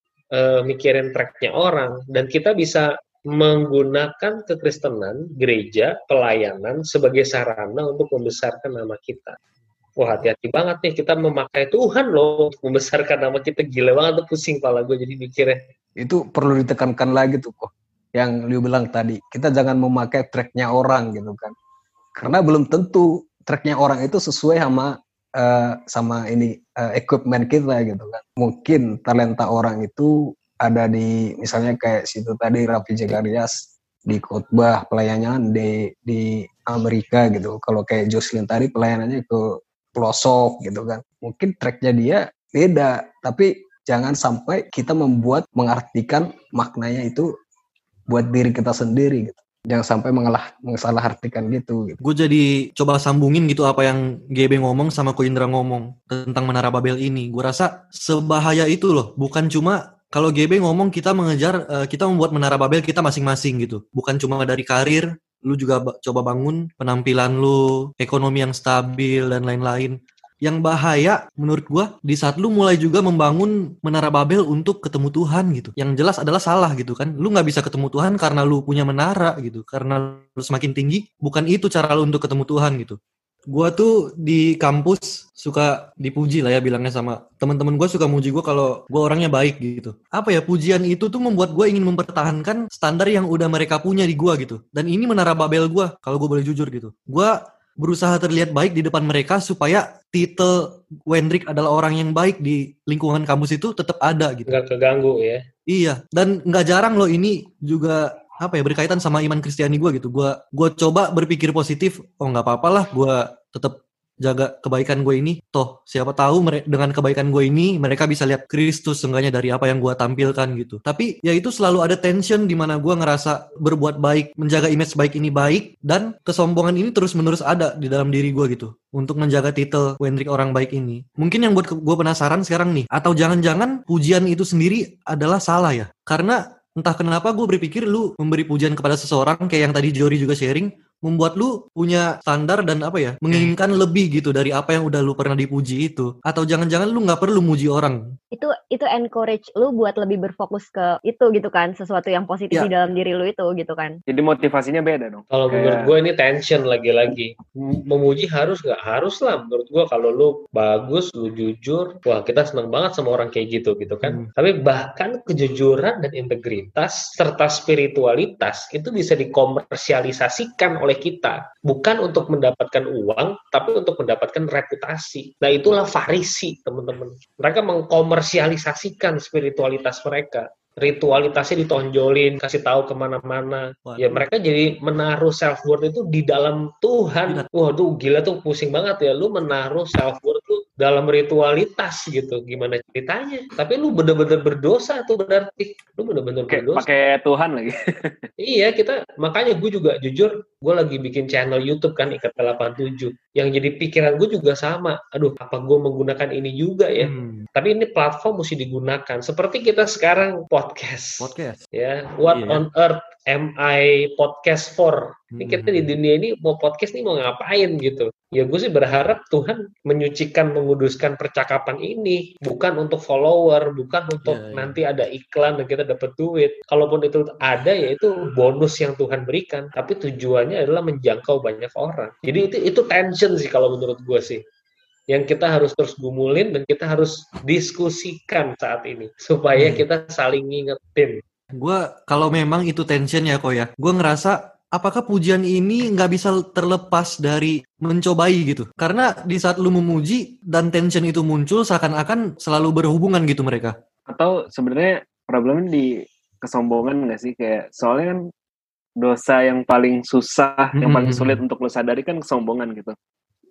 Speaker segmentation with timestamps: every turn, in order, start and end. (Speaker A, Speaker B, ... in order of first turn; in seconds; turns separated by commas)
Speaker A: 0.3-9.4, Speaker A: 10.0-15.6, Speaker B: 16.0-21.5, Speaker B: 22.2-47.3, Speaker B: 48.1-52.0, Speaker C: 52.0-83.0, Speaker C: 83.5-100.6, Speaker C: 101.1-104.5, Speaker A: 104.5-105.4, Speaker C: 105.7-148.0, Speaker D: 148.3-154.0, Speaker E: 154.1-156.0, Speaker A: 155.3-157.3, Speaker A: 157.9-196.9, Speaker C: 164.0-164.3, Speaker C: 183.9-184.3, Speaker E: 196.5-198.3, Speaker A: 198.4-234.4, Speaker C: 207.0-207.5, Speaker C: 211.2-211.6, Speaker C: 212.3-212.6, Speaker C: 215.3-215.9, Speaker C: 224.2-224.7, Speaker A: 235.1-241.2, Speaker C: 239.6-239.8, Speaker C: 241.6-253.7, Speaker E: 254.1-258.2, Speaker E: 259.0-262.9, Speaker C: 260.8-261.4